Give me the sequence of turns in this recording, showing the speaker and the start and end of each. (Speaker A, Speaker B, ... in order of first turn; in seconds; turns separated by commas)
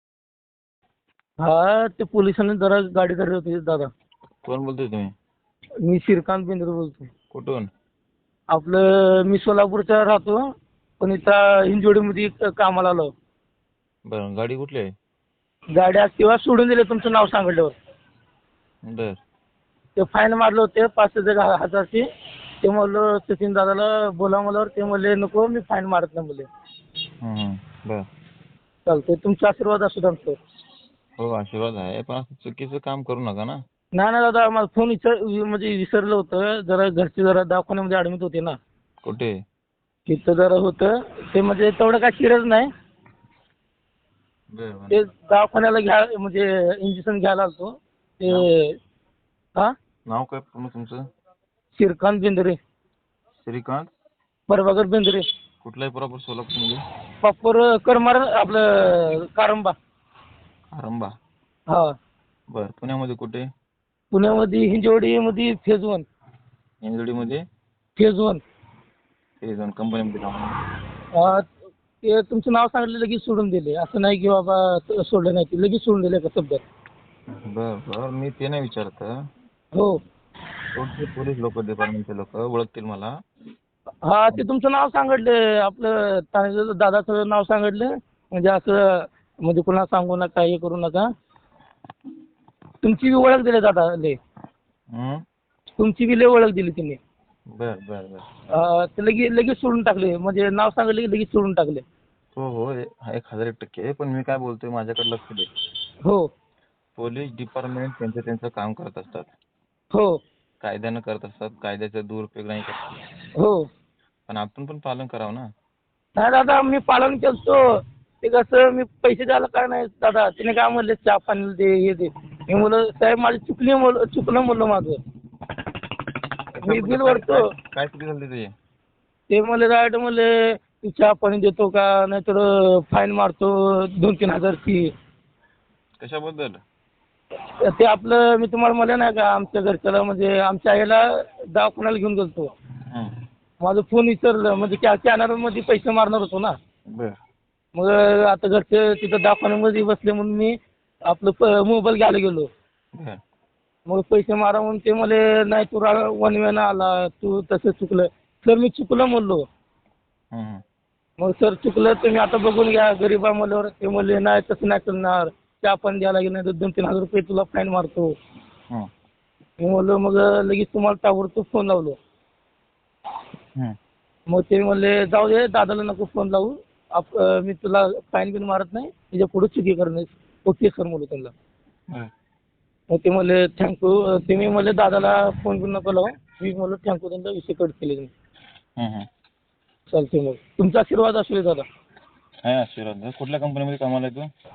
Speaker A: 1.4-3.9, Speaker B: 4.4-5.1, Speaker A: 5.8-7.1, Speaker B: 7.3-7.7, Speaker A: 8.5-10.4, Speaker A: 11.0-13.1, Speaker B: 14.1-14.9, Speaker A: 15.8-17.7, Speaker B: 18.9-19.2, Speaker A: 20.0-22.0, Speaker A: 22.6-26.5, Speaker B: 27.2-28.0, Speaker A: 28.9-30.4, Speaker B: 31.2-33.6, Speaker A: 33.9-38.6, Speaker B: 39.0-39.3, Speaker A: 40.1-42.7, Speaker B: 44.5-45.0, Speaker A: 44.9-48.7, Speaker B: 50.1-51.0, Speaker A: 51.7-52.6, Speaker B: 53.4-53.9, Speaker A: 54.5-55.2, Speaker B: 55.6-56.8, Speaker A: 57.2-59.7, Speaker B: 60.7-61.1, Speaker B: 62.5-63.5, Speaker A: 64.1-66.1, Speaker B: 66.8-67.4, Speaker A: 68.0-68.4, Speaker B: 69.4-70.6, Speaker A: 71.1-71.4, Speaker A: 72.0-76.6, Speaker B: 77.5-79.1, Speaker B: 80.7-83.1, Speaker A: 84.0-91.0, Speaker A: 92.8-94.2, Speaker B: 94.9-95.2, Speaker A: 95.8-97.0, Speaker B: 97.6-98.5, Speaker A: 98.5-101.8, Speaker B: 102.3-105.5, Speaker B: 107.0-109.3, Speaker A: 109.9-110.2, Speaker B: 110.6-112.8, Speaker A: 113.4-113.6, Speaker B: 114.3-115.5, Speaker A: 116.2-117.6, Speaker A: 118.2-125.0, Speaker B: 126.5-128.5, Speaker A: 126.6-127.4, Speaker A: 129.3-134.9, Speaker B: 136.0-136.6, Speaker A: 137.6-142.5, Speaker A: 143.6-146.5, Speaker A: 147.7-150.6, Speaker A: 151.1-152.5, Speaker A: 153.9-159.4, Speaker B: 160.3-160.6, Speaker A: 161.2-168.1, Speaker A: 169.6-172.0, Speaker A: 174.3-181.3, Speaker A: 182.9-188.1, Speaker B: 188.8-189.1, Speaker A: 189.9-191.6, Speaker B: 192.4-194.3